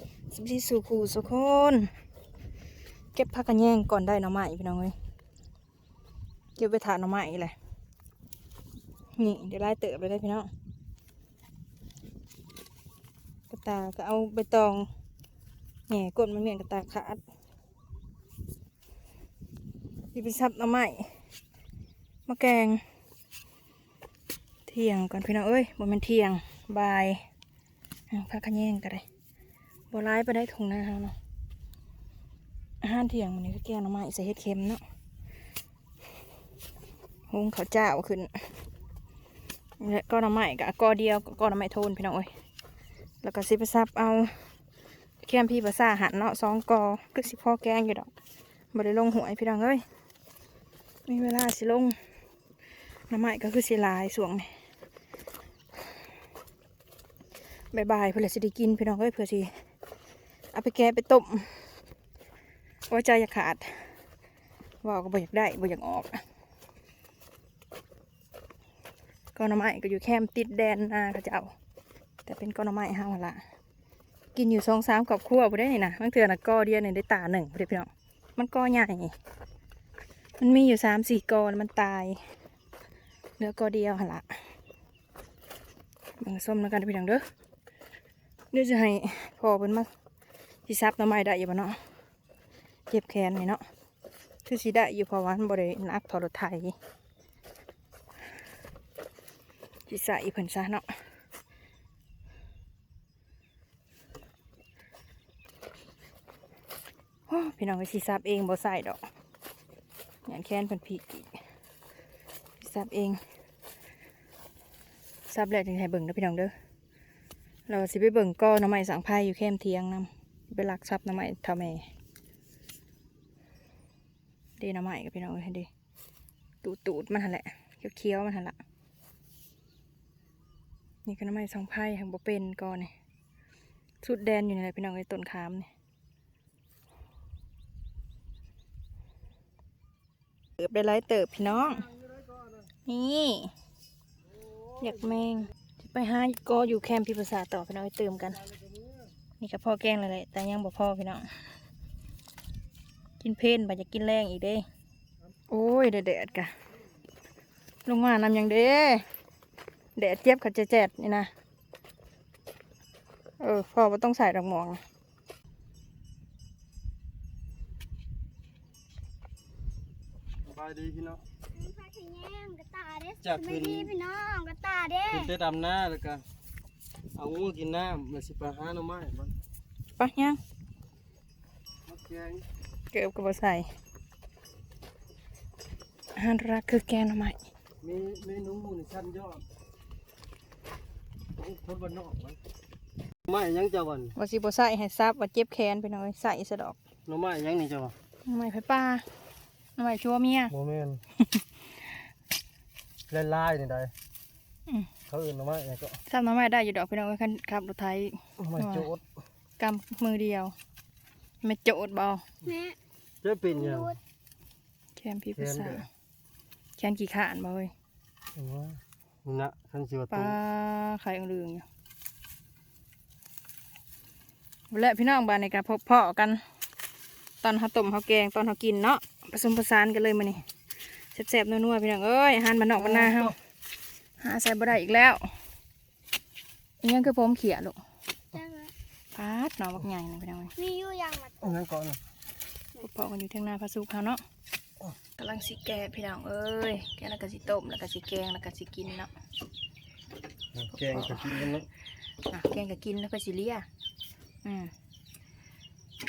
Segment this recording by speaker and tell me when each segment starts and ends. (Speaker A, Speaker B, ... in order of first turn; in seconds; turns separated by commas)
Speaker A: 0.3-1.9, Speaker A: 3.1-4.9, Speaker A: 6.6-7.5, Speaker A: 9.2-10.5, Speaker A: 13.5-14.9, Speaker A: 15.9-17.2, Speaker A: 20.1-21.1, Speaker A: 22.3-22.8, Speaker A: 24.7-27.2, Speaker A: 28.1-29.0, Speaker A: 29.9-31.1, Speaker A: 32.8-34.8, Speaker A: 37.3-38.3, Speaker A: 39.8-42.3, Speaker A: 43.2-44.4, Speaker A: 45.2-48.1, Speaker A: 48.7-49.8, Speaker A: 51.1-51.9, Speaker A: 53.1-54.5, Speaker A: 57.7-59.5, Speaker A: 60.5-61.7, Speaker A: 62.9-63.9, Speaker A: 64.8-66.2, Speaker A: 69.3-71.5, Speaker A: 72.2-73.4, Speaker A: 74.3-79.1, Speaker A: 80.4-82.2, Speaker A: 83.4-84.3, Speaker A: 86.2-87.2, Speaker A: 88.5-89.9, Speaker A: 90.7-91.8, Speaker A: 92.9-93.6, Speaker A: 94.4-96.7, Speaker A: 99.9-100.9, Speaker A: 107.3-109.0, Speaker A: 110.2-111.3, Speaker A: 112.6-113.2, Speaker A: 115.3-116.5, Speaker A: 117.7-121.8, Speaker A: 124.6-125.7, Speaker A: 126.6-128.6, Speaker A: 131.0-132.9, Speaker A: 134.0-135.7, Speaker A: 140.6-141.9, Speaker A: 142.8-143.5, Speaker A: 144.8-148.4, Speaker A: 149.4-151.5, Speaker A: 153.2-154.7, Speaker A: 155.5-156.5, Speaker A: 157.8-159.1, Speaker A: 159.9-161.3, Speaker A: 163.4-164.8, Speaker B: 170.4-171.2, Speaker C: 171.5-175.3, Speaker B: 173.2-173.9, Speaker B: 175.1-176.2, Speaker B: 177.2-179.3, Speaker A: 180.0-180.4, Speaker B: 181.9-182.4, Speaker A: 182.9-183.7, Speaker A: 186.2-187.4, Speaker B: 187.8-189.4, Speaker B: 191.4-192.4, Speaker B: 193.2-194.2, Speaker A: 194.2-196.8, Speaker B: 197.1-197.9, Speaker A: 198.2-199.1, Speaker A: 199.8-200.5, Speaker B: 200.5-201.0, Speaker B: 203.1-203.9, Speaker B: 205.1-206.0, Speaker A: 206.1-208.9, Speaker B: 208.4-209.0, Speaker A: 209.6-210.5, Speaker A: 211.4-212.2, Speaker C: 212.4-212.8, Speaker B: 213.2-213.9, Speaker C: 213.5-214.0, Speaker A: 214.9-215.9, Speaker B: 215.3-215.8, Speaker A: 216.8-217.7, Speaker B: 218.3-220.4, Speaker A: 220.1-221.6, Speaker A: 224.7-226.4, Speaker A: 227.4-230.4, Speaker A: 231.1-233.3, Speaker B: 232.8-233.3, Speaker A: 234.2-235.3, Speaker A: 236.8-237.8, Speaker C: 238.3-238.7, Speaker A: 239.1-240.5, Speaker C: 240.6-241.5, Speaker B: 241.4-242.0, Speaker A: 242.8-244.2, Speaker A: 245.2-249.1, Speaker B: 250.5-251.7, Speaker A: 250.7-251.5, Speaker A: 252.3-253.7, Speaker A: 254.4-254.7